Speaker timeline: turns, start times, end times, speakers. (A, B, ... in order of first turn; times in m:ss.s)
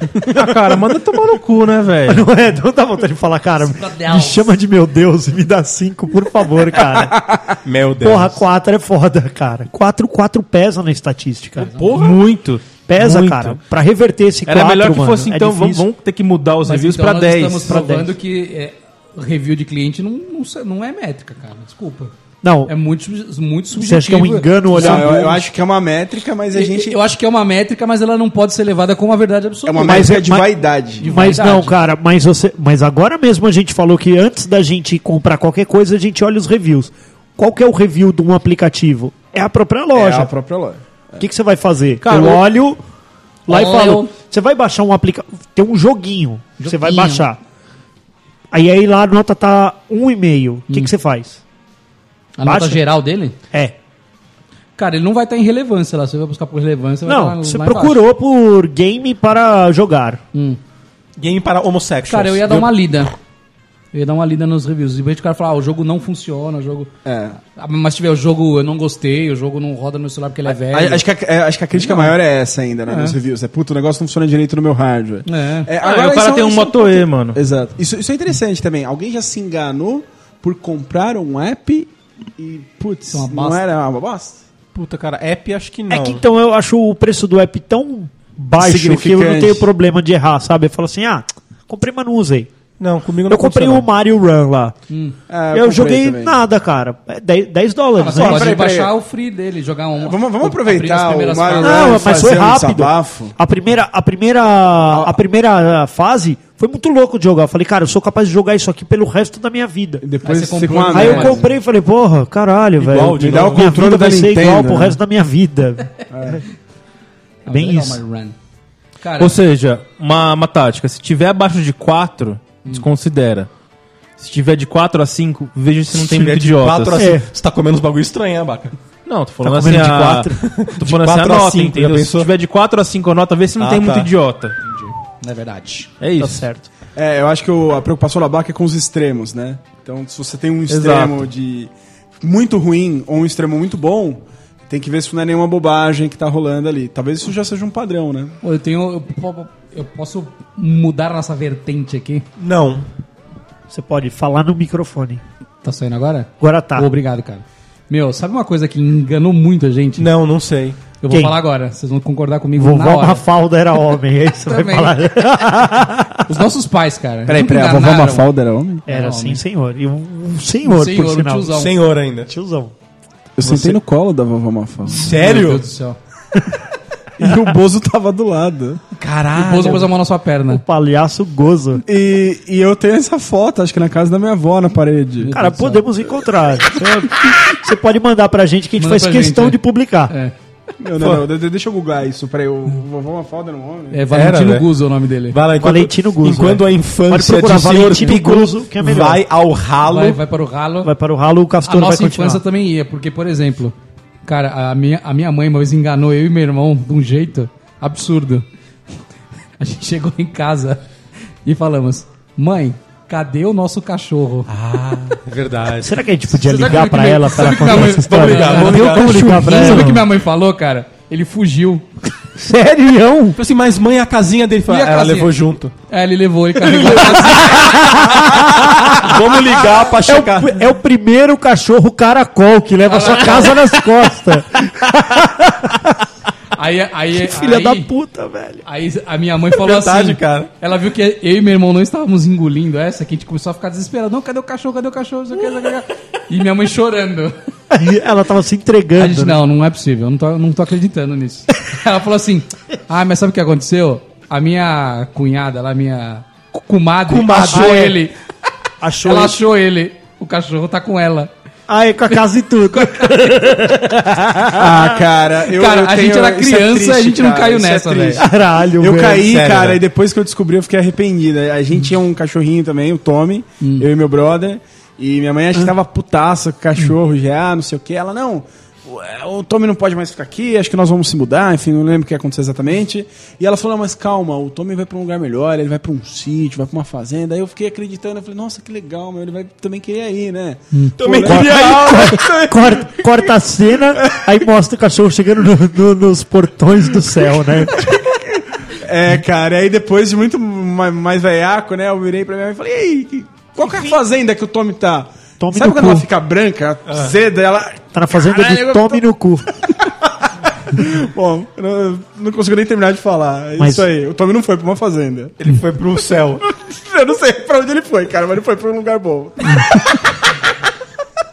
0:00.2-0:02.3 A
0:02.1-0:07.5 B
0:03.6-0:04.6 C
0:07.6-0:08.4 D
0:08.0-0:12.1 B
0:11.6-0:12.1 C
0:11.7-0:13.6 A
0:12.9-0:15.8 B
0:14.5-0:17.9 A
0:16.7-0:22.1 C
0:17.7-0:18.0 B
0:22.4-0:22.7 B
0:22.7-0:25.2 C
0:23.8-0:25.4 B
0:24.7-0:27.0 E
0:26.5-0:30.2 C
0:29.7-0:31.4 E
0:29.8-0:40.3 B
0:31.0-0:31.8 C
0:39.9-0:41.2 E
0:41.2-0:42.8 B
0:42.0-0:42.4 A
0:43.5-0:47.4 B
0:43.5-0:44.1 C
0:46.6-0:47.3 C
0:48.5-0:51.4 B
0:52.4-0:53.4 C
0:52.4-0:52.8 B
0:54.8-0:58.0 C
0:57.1-1:00.2 B
1:00.3-1:00.6 C
1:01.2-1:02.7 D
1:02.1-1:03.1 C
1:03.9-1:06.9 C
1:07.0-1:07.4 E
1:07.5-1:11.0 C
1:10.5-1:24.4 E
1:11.8-1:12.2 C
1:12.9-1:13.2 C
1:15.3-1:15.7 C
1:15.8-1:17.4 A
1:23.1-1:23.6 C
1:24.7-1:26.2 D
1:25.9-1:32.5 B
1:28.6-1:29.7 E
1:32.8-1:33.9 D
1:33.3-1:34.8 B
1:34.9-1:35.2 C
1:35.3-1:36.4 E
1:35.5-1:38.6 B
1:38.0-1:42.1 C
1:38.1-1:38.9 E
1:40.0-1:43.4 E
1:41.6-1:50.0 B
1:50.0-1:51.5 E
1:50.2-1:51.4 C
1:50.9-1:56.4 B
1:52.8-1:53.8 D
1:53.2-1:55.0 E
1:56.1-1:56.4 E
1:57.4-1:58.4 C
1:57.5-1:58.0 B
1:59.0-1:59.4 C
1:59.2-2:03.5 A
2:04.2-2:07.0 A
2:05.9-2:08.8 D
2:07.0-2:07.3 B
2:09.1-2:14.6 A
2:09.4-2:10.4 B
2:09.6-2:12.3 D
2:13.6-2:14.1 D
2:14.6-2:15.9 C
2:16.0-2:16.4 A
2:16.2-2:16.7 B
2:17.0-2:28.4 E
2:20.7-2:21.2 A
2:28.4-2:32.2 C
2:32.4-2:32.9 D
2:33.7-2:35.2 B
2:35.6-2:40.1 C
2:36.4-2:36.9 B
2:40.0-2:40.8 D
2:41.0-2:43.2 C
2:41.1-2:41.4 B
2:42.6-2:46.4 B
2:44.4-2:45.1 C
2:46.3-2:48.3 C
2:47.3-2:48.9 E
2:48.9-2:49.4 C
2:48.9-2:51.7 B
2:50.6-2:51.7 C
2:51.5-2:52.3 D
2:52.3-2:52.7 B
2:53.4-2:55.1 E
2:53.4-2:53.8 D
2:54.9-2:55.6 D
2:55.0-2:56.0 C
2:57.2-2:59.8 E
2:59.3-3:00.6 C
3:00.5-3:01.8 B
3:01.9-3:05.3 E
3:05.2-3:05.8 C
3:05.3-3:10.1 B
3:08.8-3:10.3 C
3:10.8-3:14.0 E
3:11.0-3:11.2 D
3:13.9-3:15.4 C
3:14.1-3:14.7 D
3:15.3-3:20.2 D
3:15.6-3:19.2 B
3:19.8-3:20.9 C
3:20.8-3:22.4 B
3:21.6-3:28.4 C
3:29.6-3:30.8 C
3:31.4-3:34.5 C
3:34.5-3:36.1 D
3:35.8-3:40.0 B
3:36.3-3:41.9 C
3:37.3-3:40.1 D
3:42.4-3:43.4 B
3:43.4-3:45.7 D
3:44.7-3:45.4 C
3:45.9-3:48.0 C
3:46.7-3:50.7 D
3:46.8-3:49.3 B
3:50.0-3:56.0 B
3:52.8-3:53.6 C
3:56.6-3:57.9 C
3:57.2-3:58.6 B
3:58.6-4:07.4 C
3:59.6-4:00.5 D
4:07.7-4:09.4 B
4:09.0-4:18.2 C
4:17.1-4:18.0 D
4:17.5-4:18.0 B
4:18.8-4:19.4 B
4:19.0-4:21.3 C
4:21.7-4:25.0 B
4:24.6-4:53.1 E
4:25.5-4:28.2 C
4:28.2-4:29.3 B
4:29.2-4:29.8 D
4:33.6-4:33.9 C
4:50.7-4:51.0 C
4:51.0-4:52.3 D
4:51.2-4:58.0 B
4:54.0-4:54.3 E
4:57.8-5:09.0 E
5:05.4-5:06.1 B
5:07.9-5:09.5 B
5:10.7-5:15.4 E
5:13.6-5:13.9 B
5:15.4-5:16.4 D
5:16.5-5:20.2 E
5:19.5-5:19.8 C